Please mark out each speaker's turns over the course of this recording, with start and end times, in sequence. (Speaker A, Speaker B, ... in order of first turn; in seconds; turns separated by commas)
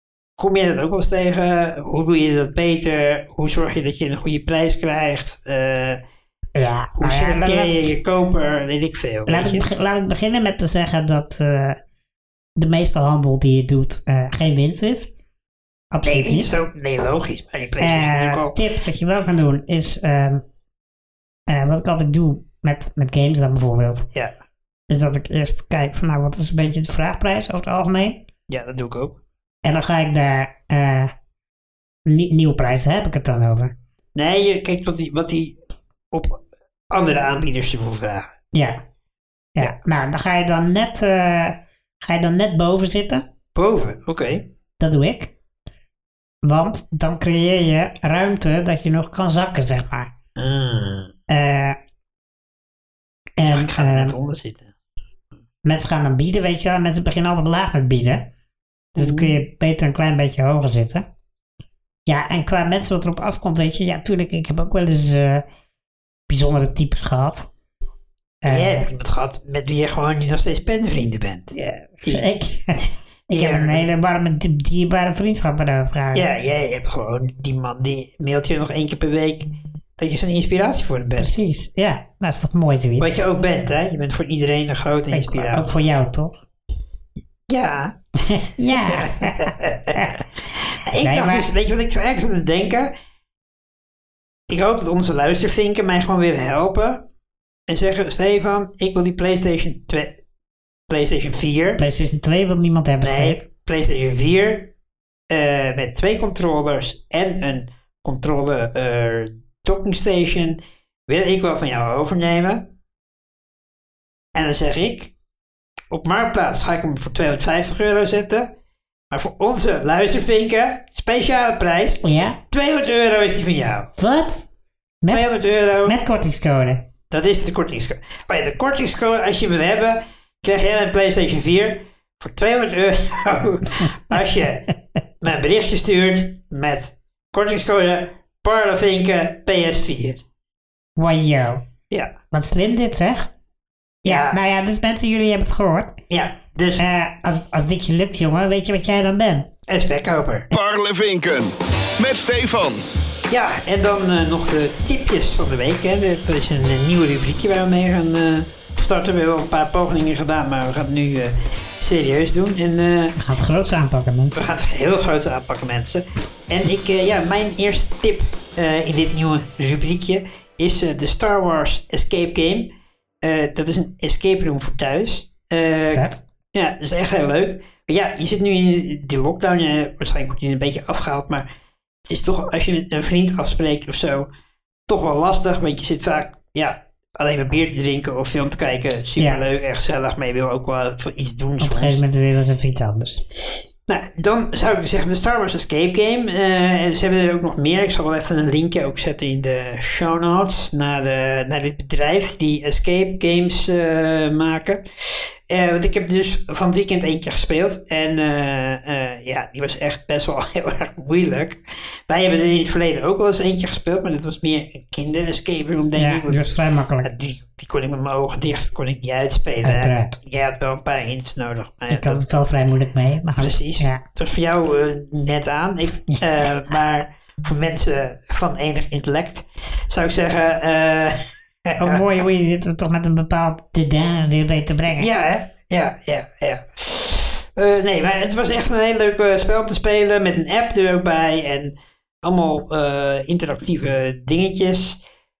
Speaker A: 0.4-6.0, Speaker B: 6.5-7.9, Speaker A: 6.9-9.7, Speaker B: 9.3-11.8, Speaker B: 12.6-15.1, Speaker B: 15.9-16.5, Speaker A: 16.0-18.6, Speaker B: 17.8-20.4, Speaker B: 21.5-24.1, Speaker B: 24.9-28.2, Speaker A: 28.5-29.2, Speaker B: 29.6-31.1, Speaker B: 32.0-33.7, Speaker A: 34.1-35.6, Speaker A: 36.1-38.3, Speaker B: 38.5-38.8, Speaker B: 39.5-43.2, Speaker A: 43.5-44.5, Speaker B: 44.8-45.3, Speaker B: 46.4-50.1, Speaker A: 50.4-51.1, Speaker B: 51.3-51.8, Speaker B: 53.4-54.1, Speaker A: 53.4-54.7, Speaker B: 55.6-58.3, Speaker B: 59.0-61.0, Speaker A: 59.0-59.4, Speaker B: 62.0-65.4, Speaker B: 66.3-67.5, Speaker B: 68.4-68.9, Speaker A: 68.5-72.2, Speaker B: 71.5-76.3, Speaker A: 73.3-73.9, Speaker A: 76.1-81.3, Speaker B: 81.2-83.2, Speaker A: 83.0-85.7, Speaker B: 85.1-86.3, Speaker A: 87.5-88.0, Speaker B: 88.3-90.2, Speaker A: 88.7-92.9, Speaker B: 91.0-91.5, Speaker A: 94.5-97.0, Speaker A: 97.7-100.2, Speaker A: 100.9-101.8, Speaker B: 101.8-103.4, Speaker A: 103.0-104.7, Speaker A: 105.3-112.7, Speaker A: 114.3-115.1, Speaker A: 115.9-118.5, Speaker A: 119.1-123.9, Speaker B: 122.0-122.4, Speaker B: 124.0-124.5, Speaker B: 125.0-125.3, Speaker A: 125.1-126.0, Speaker B: 125.8-126.8, Speaker A: 127.1-140.2, Speaker B: 140.9-141.7, Speaker A: 141.9-142.1, Speaker B: 142.3-143.3, Speaker A: 144.0-144.4, Speaker B: 144.0-146.0, Speaker A: 146.1-146.9, Speaker B: 146.8-149.5, Speaker A: 149.7-150.5, Speaker C: 150.5-152.8, Speaker A: 153.3-163.1, Speaker B: 163.2-164.4, Speaker A: 164.3-172.7, Speaker A: 173.2-181.5, Speaker B: 175.9-176.2, Speaker A: 182.1-184.3, Speaker A: 184.9-192.0, Speaker B: 191.6-193.2, Speaker A: 193.9-222.2, Speaker B: 215.9-217.1, Speaker B: 219.6-220.2, Speaker B: 221.9-224.0, Speaker A: 223.3-232.0, Speaker B: 231.8-235.1, Speaker A: 234.9-245.0